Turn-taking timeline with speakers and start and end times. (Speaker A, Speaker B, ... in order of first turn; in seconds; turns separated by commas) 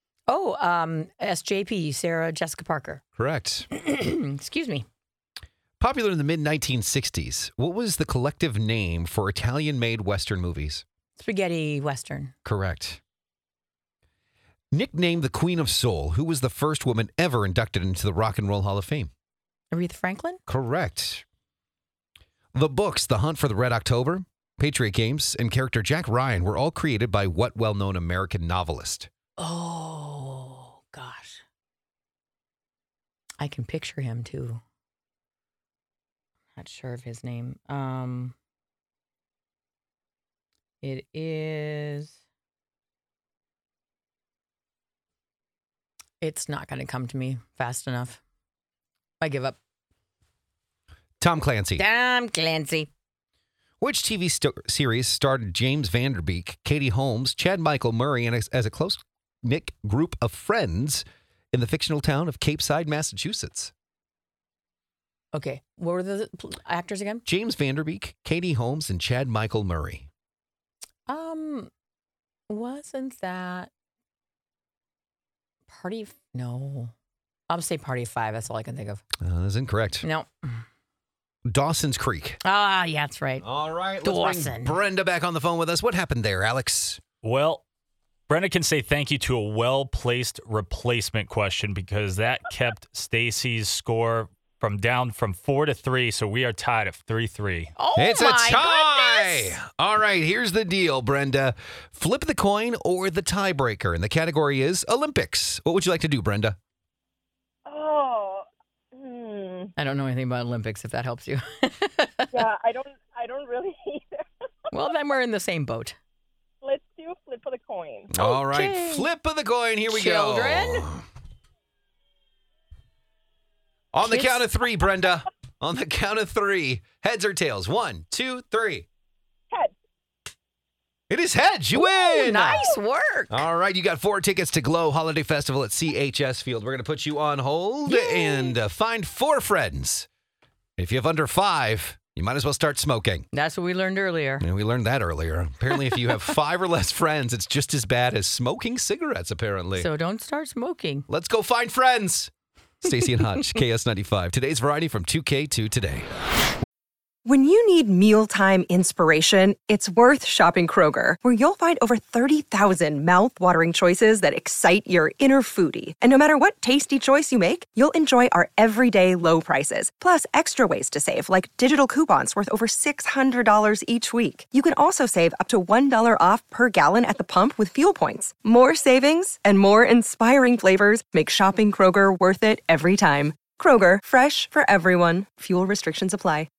Speaker A: 0.3-3.0, Speaker B: 3.2-3.7, Speaker A: 3.7-4.8, Speaker B: 5.8-10.8, Speaker A: 11.2-12.3, Speaker B: 12.4-13.0, Speaker B: 14.7-19.1, Speaker A: 19.7-20.4, Speaker B: 20.5-21.2, Speaker B: 22.5-29.1, Speaker A: 29.4-31.4, Speaker A: 33.4-34.6, Speaker A: 36.5-38.3, Speaker A: 40.8-42.1, Speaker A: 46.2-48.2, Speaker A: 49.2-49.6, Speaker B: 51.2-51.8, Speaker A: 51.8-52.9, Speaker B: 53.8-63.7, Speaker A: 65.3-67.2, Speaker B: 67.2-70.1, Speaker A: 71.1-71.7, Speaker A: 72.5-73.7, Speaker A: 75.7-76.9, Speaker A: 77.5-79.0, Speaker B: 79.2-80.0, Speaker A: 80.0-80.6, Speaker B: 81.5-82.4, Speaker A: 82.4-83.5, Speaker B: 83.4-87.0, Speaker A: 84.0-84.8, Speaker C: 87.2-87.6, Speaker C: 88.3-97.7, Speaker A: 97.8-99.6, Speaker B: 98.0-106.6, Speaker D: 107.7-109.7, Speaker A: 109.8-112.3, Speaker D: 112.3-114.2, Speaker A: 114.7-116.0, Speaker D: 116.6-118.1, Speaker B: 118.1-121.0, Speaker A: 118.2-119.1, Speaker A: 119.9-120.9, Speaker B: 123.9-128.9, Speaker A: 124.0-124.4, Speaker B: 131.1-132.7, Speaker A: 131.7-133.4, Speaker B: 133.3-140.1, Speaker A: 137.9-138.6, Speaker B: 140.8-143.2, Speaker A: 143.3-144.4, Speaker B: 144.4-149.9, Speaker A: 149.8-151.1, Speaker B: 151.1-152.3, Speaker B: 152.8-156.1, Speaker E: 157.2-186.5